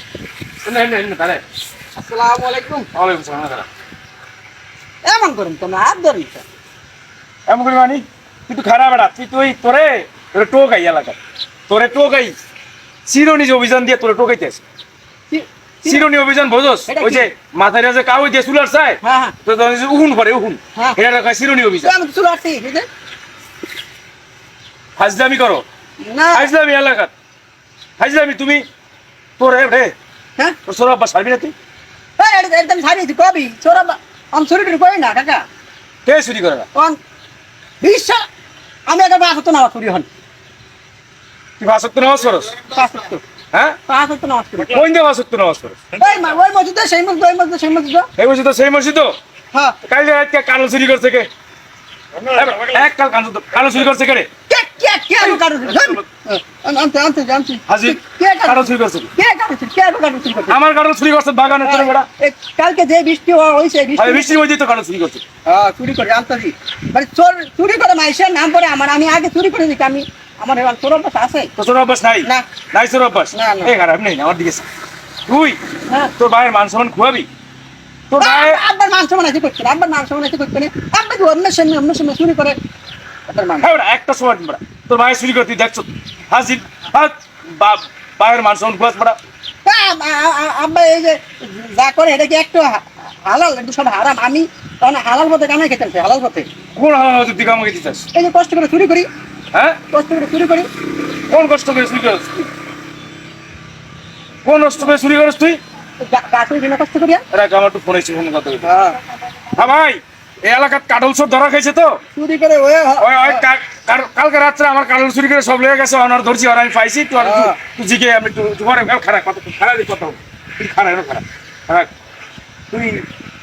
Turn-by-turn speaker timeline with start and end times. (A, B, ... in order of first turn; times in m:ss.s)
0:00.6-0:01.4 A
0:02.0-0:02.9 B
0:02.9-0:03.7 A
0:05.0-0:06.4 B
0:07.5-0:12.4 A
0:13.1-0:14.6 A
0:15.3-0:16.1 B
0:15.9-0:21.9 A
0:16.9-0:17.3 B
0:19.0-0:19.4 B
0:21.8-0:22.9 B
0:25.0-0:25.6 A
0:26.0-0:26.5 B
0:26.3-0:27.1 A
0:28.0-0:28.6 A
0:29.4-0:29.9 A
0:30.7-0:31.5 A
0:32.2-0:35.4 B
0:36.1-0:36.7 A
0:37.8-0:38.2 B
0:38.9-0:40.1 B
0:41.6-0:42.6 A
0:42.7-0:43.2 B
0:43.5-0:43.8 A
0:43.9-0:44.8 B
0:44.7-0:45.8 A
0:46.0-0:48.1 B
0:48.2-0:49.2 A
0:49.8-0:51.3 A
0:52.3-0:54.3 A
0:54.5-1:00.6 B
0:55.2-0:56.0 A
0:57.7-0:59.1 A
1:00.5-1:02.1 A
1:01.6-1:04.3 B
1:04.0-1:05.2 A
1:05.5-1:11.5 B
1:11.6-1:14.7 A
1:13.3-1:13.7 B
1:15.3-1:15.6 A
1:16.2-1:17.3 A
1:18.1-1:18.6 A
1:18.2-1:22.6 B
1:23.3-1:23.7 B
1:23.6-1:29.2 A
1:29.6-1:36.5 B
1:36.8-1:38.1 A
1:38.1-1:39.1 B
1:39.5-1:39.8 A
1:39.9-1:40.7 B
1:41.3-1:42.5 A
1:44.4-1:45.6 A
1:46.0-1:47.2 B
1:47.3-1:48.7 A
1:48.6-1:49.0 B
1:49.6-1:52.0 A
1:52.2-1:53.4 B
1:53.0-2:01.9 A
1:57.2-1:57.6 B
2:02.7-2:03.1 A